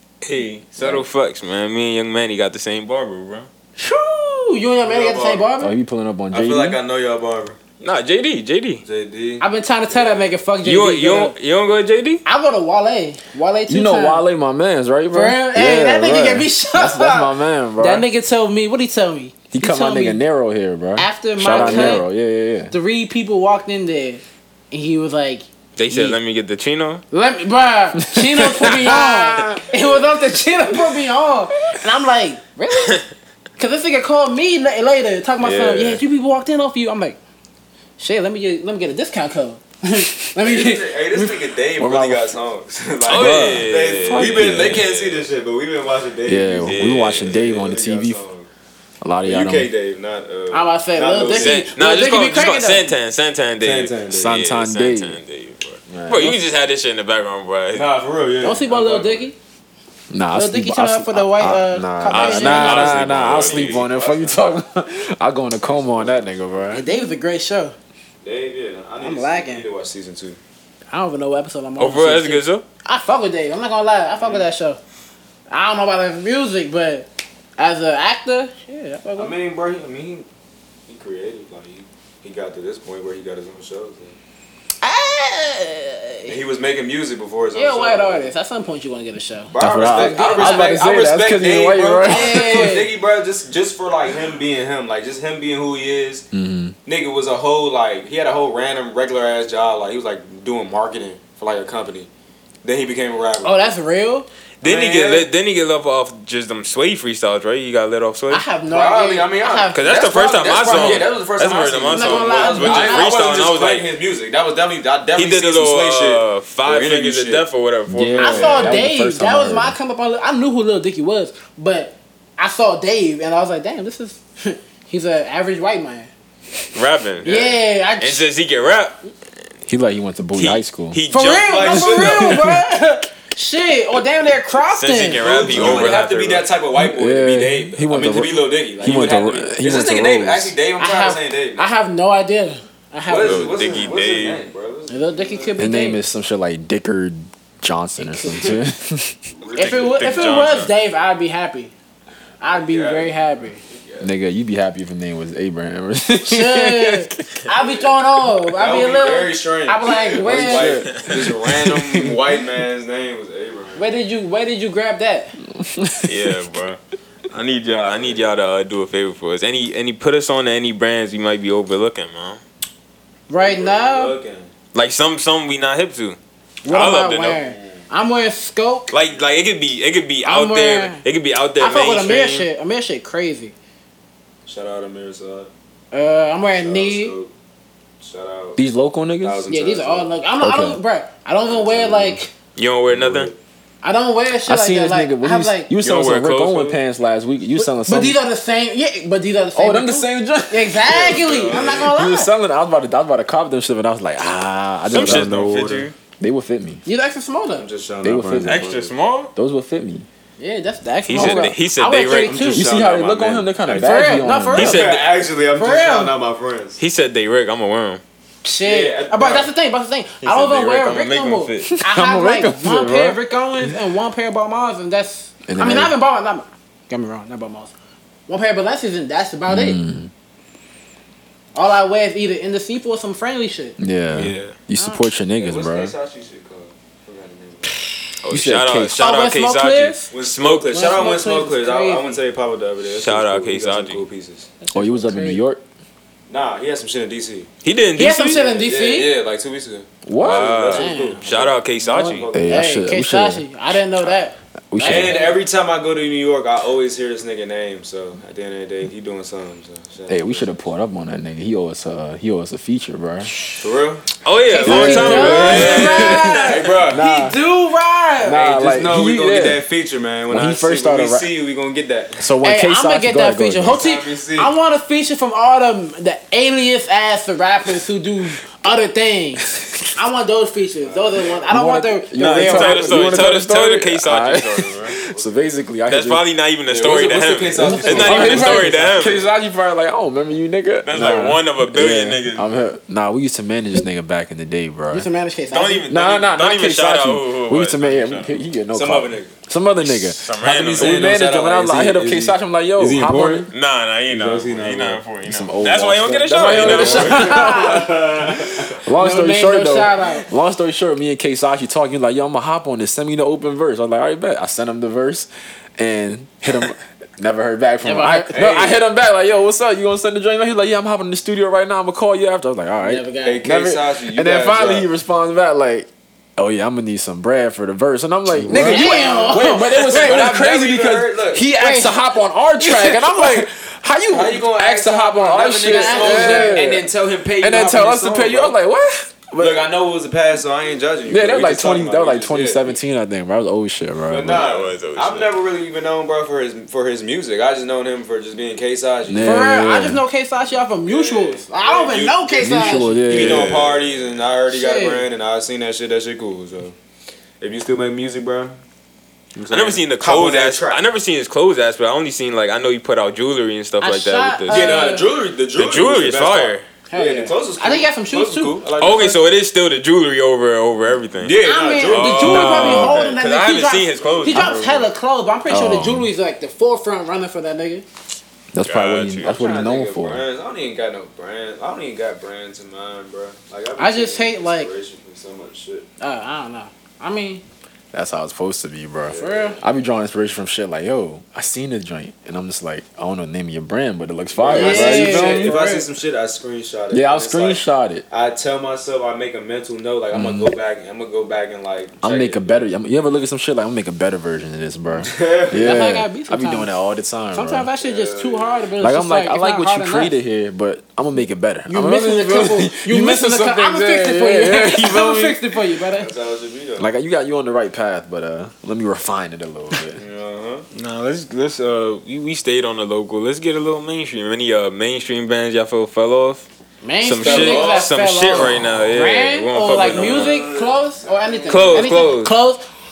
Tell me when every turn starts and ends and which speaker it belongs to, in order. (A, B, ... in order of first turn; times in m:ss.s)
0:00.2-0:03.5 A
0:00.8-0:01.1 B
0:03.8-0:05.7 C
0:04.8-0:05.5 D
0:05.6-0:06.8 B
0:06.3-0:07.6 D
0:07.8-0:08.8 A
0:08.8-0:10.4 D
0:09.4-0:11.4 C
0:10.6-0:12.2 A
0:12.2-0:14.2 C
0:13.7-0:18.1 B
0:15.1-0:20.2 C
0:19.5-0:22.7 B
0:21.0-0:22.1 C
0:21.5-0:22.0 A
0:22.7-0:25.5 C
0:25.8-0:27.0 A
0:25.9-0:26.2 B
0:27.1-0:33.0 C
0:28.0-0:28.8 B
0:28.6-0:29.7 A
0:32.8-0:33.0 A
0:33.6-0:37.2 C
0:35.4-0:36.0 A
0:38.0-0:41.4 C
0:40.4-0:48.5 D
0:41.8-0:42.3 B
0:43.0-0:45.3 A
0:43.1-0:44.9 B
0:46.3-0:48.2 B
0:46.7-0:47.4 A
0:49.0-0:49.7 B
0:49.2-0:51.7 D
0:50.5-0:52.9 C
0:51.3-0:57.9 A
0:53.6-0:54.3 D
0:54.1-0:55.2 B
0:55.9-0:56.4 B
0:57.7-0:59.3 D
0:58.4-0:59.4 C
1:00.1-1:06.8 B
1:00.3-1:03.1 C
1:02.1-1:03.8 A
1:02.9-1:04.4 D
1:05.6-1:06.6 D
1:06.7-1:07.8 C
1:08.2-1:10.4 D
1:09.0-1:09.7 C
1:10.9-1:14.8 C
1:11.8-1:12.6 A
1:14.2-1:14.5 D
1:15.5-1:19.3 C
1:19.2-1:20.3 D
1:20.9-1:24.2 D
1:24.8-1:26.4 C
1:26.3-1:28.3 D
1:27.6-1:30.6 C
1:29.5-1:36.3 D
1:29.6-1:32.8 B
1:32.0-1:32.9 C
1:36.3-1:36.8 B
1:36.8-1:42.1 D
1:42.6-1:43.6 D
1:43.4-1:44.3 C
1:44.6-1:48.5 A
1:44.6-1:45.3 D
1:48.3-1:50.2 C
1:48.7-1:57.4 D
1:49.7-1:53.9 A
1:51.9-1:53.1 C
1:55.2-1:58.8 A
1:57.9-1:59.8 B
1:58.2-2:06.1 C
2:06.7-2:07.3 A
2:07.2-2:07.6 D
2:07.2-2:08.3 C
2:08.0-2:09.0 A
2:09.7-2:11.0 B
2:10.4-2:11.9 A
2:11.1-2:15.3 C
2:11.4-2:12.5 D
2:12.0-2:12.6 B
2:14.6-2:16.5 A
2:15.2-2:21.7 D
2:15.5-2:16.0 B
2:16.8-2:20.6 B
2:20.8-2:23.6 C
2:23.1-2:25.6 D
2:23.2-2:24.4 A
2:24.9-2:26.0 C
2:25.6-2:29.2 B
2:28.0-2:28.6 C
2:29.3-2:30.4 D
2:29.6-2:31.7 C
2:29.6-2:30.7 A
2:32.4-2:33.6 C
2:32.5-2:34.1 D
2:34.0-2:37.2 B
2:36.2-2:40.9 C
2:38.6-2:43.8 D
2:40.2-2:42.2 B
2:40.9-2:41.4 A
2:43.8-2:45.3 C
2:45.4-2:46.4 B
2:46.0-2:46.8 A
2:47.3-2:52.4 A
2:47.8-2:48.2 D
2:53.3-2:54.1 C
2:53.3-2:54.5 D
2:54.7-2:57.4 A
2:56.6-2:58.9 C
2:57.4-2:57.8 D
2:58.9-3:02.5 A
3:00.2-3:01.0 C
3:01.6-3:03.6 C
3:04.4-3:05.5 D
3:05.9-3:07.1 C
3:06.5-3:07.3 D
3:08.0-3:08.6 D
3:08.6-3:09.5 B
3:09.2-3:10.2 D
3:09.5-3:12.3 C
3:10.4-3:10.8 B
3:11.5-3:12.2 D
3:12.6-3:13.3 A
3:12.9-3:13.4 D
3:13.8-3:15.7 C
3:14.5-3:18.2 B
3:15.8-3:16.8 A
3:17.6-3:22.3 C
3:19.6-3:20.8 B
3:20.9-3:21.9 D
3:21.0-3:21.7 A
3:21.7-3:26.8 B
3:24.9-3:25.8 D
3:24.9-3:25.9 A
3:26.9-3:27.7 C
3:27.5-3:28.9 D
3:28.0-3:28.6 B
3:28.4-3:29.3 A
3:29.4-3:30.1 B
3:30.4-3:32.7 C
3:31.1-3:33.7 A
3:31.2-3:31.6 B
3:32.1-3:33.0 D
3:32.6-3:34.8 B
3:33.7-3:36.8 D
3:33.7-3:34.9 C
3:34.6-3:35.0 A
3:35.5-3:36.1 C
3:36.8-3:38.0 A
3:38.4-3:47.7 C
3:38.6-3:39.5 D
3:40.2-3:41.7 A
3:41.6-3:43.8 B
3:45.5-3:46.0 B
3:48.3-3:49.8 C
3:49.5-3:50.1 B
3:51.6-3:53.8 C
3:53.8-3:55.9 B
3:54.1-3:54.6 A
3:54.8-3:55.0 C
3:55.4-3:57.8 D
3:58.2-4:01.1 A
3:58.3-3:59.1 B
3:59.0-4:00.1 C
4:00.1-4:04.5 D
4:00.7-4:02.2 C
4:02.9-4:04.1 A
4:04.6-4:05.4 C
4:04.7-4:05.6 B
4:06.3-4:07.5 D
4:07.6-4:08.5 A
4:08.0-4:09.1 C
4:08.3-4:12.8 D
4:10.0-4:10.6 B
4:10.2-4:12.3 A
4:10.7-4:11.2 C
4:12.3-4:13.4 B
4:12.4-4:15.4 C
4:14.7-4:15.3 B
4:14.8-4:20.6 D
4:20.1-4:23.3 B
4:23.6-4:24.1 D
4:24.2-4:26.5 A
4:24.5-4:28.4 C
4:24.6-4:27.4 B
4:24.7-4:27.0 D
4:28.2-4:29.6 B
4:28.3-4:32.3 D
4:30.3-4:31.3 B
4:32.2-4:33.8 B
4:32.4-4:43.2 C
4:33.7-4:34.5 D
4:40.8-4:41.6 D
4:41.5-4:46.2 B
4:42.2-4:44.9 A
4:44.9-4:45.4 D
4:45.9-4:49.2 A
4:46.7-4:49.2 D
4:47.6-4:48.9 C
4:47.9-4:55.1 B
4:50.8-4:52.5 A
4:54.9-4:55.9 C
4:55.5-4:58.4 A
4:55.9-5:03.5 B
4:58.7-4:59.3 D
4:59.8-5:01.2 A
5:00.4-5:03.5 D
5:03.5-5:07.7 A
5:04.1-5:05.0 D
5:05.2-5:07.8 B
5:06.5-5:08.8 D
5:06.9-5:08.0 C
5:08.4-5:36.9 B
5:09.0-5:10.3 C
5:17.8-5:18.3 C
5:18.3-5:18.8 D
5:22.8-5:23.4 C
5:23.2-5:24.9 D
5:28.4-5:31.5 D
5:28.5-5:30.3 C
5:31.5-5:32.0 C
5:32.6-5:33.5 C
5:34.1-5:38.6 D
5:35.6-5:36.6 C
5:37.4-5:39.7 B
5:39.4-5:42.8 D
5:41.1-5:44.5 B
5:44.1-5:49.6 D
5:44.3-5:45.3 A
5:49.1-5:50.0 B
5:49.2-5:53.0 C
5:50.9-5:56.8 D
5:52.4-5:53.7 B
5:53.1-5:54.0 A
5:54.5-5:55.1 C
5:57.4-5:58.6 D
5:59.4-6:00.8 D
5:59.5-6:04.9 A
6:03.8-6:05.1 C
6:04.5-6:09.2 D
6:05.6-6:06.6 A
6:06.9-6:08.6 C
6:08.8-6:14.7 A
6:11.2-6:13.2 D
6:11.4-6:17.8 C
6:14.0-6:14.9 D
6:15.5-6:16.1 B
6:18.5-6:20.2 B
6:18.6-6:19.4 A
6:19.2-6:25.9 D
6:23.8-6:24.7 C
6:26.0-6:27.4 C
6:27.9-6:35.6 B
6:29.1-6:29.6 D
6:29.2-6:29.6 C
6:34.3-6:42.7 D
6:34.5-6:35.9 C
6:36.9-6:38.0 B
6:40.1-6:40.5 B
6:42.0-6:47.7 B
6:45.0-6:45.8 D
6:45.6-6:46.8 C
6:47.3-6:50.1 C
6:47.8-6:48.7 D
6:48.8-6:55.6 B
6:51.7-6:56.1 C
6:56.0-6:56.9 D
6:56.8-7:00.0 B
7:00.0-7:00.7 D
7:00.7-7:06.5 A
7:06.8-7:12.7 C
7:07.0-7:10.4 A
7:07.2-7:07.9 D
7:09.7-7:12.2 D
7:11.5-7:12.3 A